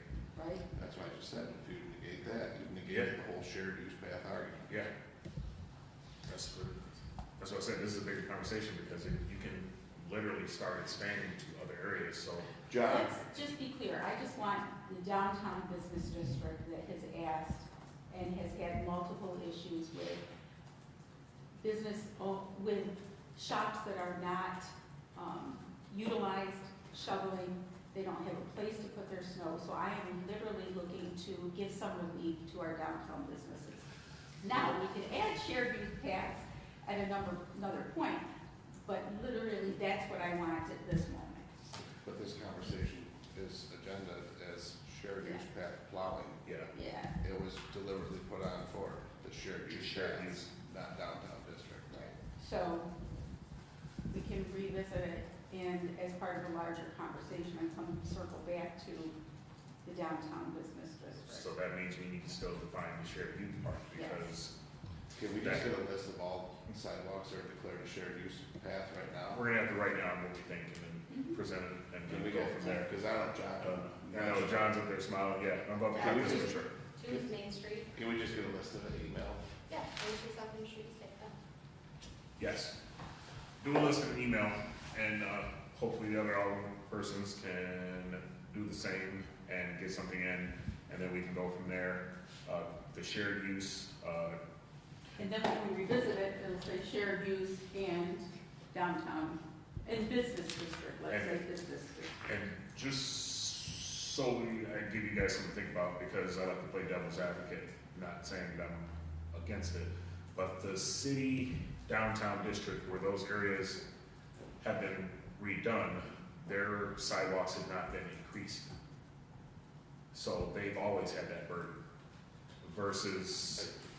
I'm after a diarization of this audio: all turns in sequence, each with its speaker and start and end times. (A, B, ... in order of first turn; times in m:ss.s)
0:00.3-0:00.6 A
0:00.7-0:04.8 B
0:06.2-0:12.6 C
0:12.7-0:13.2 B
0:12.8-0:20.2 A
0:21.6-0:33.9 A
0:34.4-0:41.6 A
0:42.0-0:46.4 B
0:46.4-0:46.7 C
0:46.7-0:47.2 A
0:47.2-0:52.1 B
0:49.7-0:50.4 C
0:51.9-0:52.9 A
0:54.1-0:59.2 A
0:59.8-1:01.5 A
1:01.2-1:04.5 C
1:03.9-1:04.3 A
1:05.2-1:09.4 B
1:05.4-1:05.7 C
1:09.3-1:12.9 C
1:11.1-1:11.4 A
1:12.1-1:14.8 B
1:13.6-1:16.7 C
1:15.9-1:17.9 D
1:16.0-1:16.6 B
1:17.9-1:19.4 B
1:19.7-1:21.3 D
1:22.4-1:22.8 C
1:23.6-1:34.4 C
1:35.2-1:42.2 A
1:41.1-1:41.4 C
1:42.2-1:53.8 C
1:54.6-1:58.7 C
2:00.1-2:01.8 C
2:02.6-2:03.7 C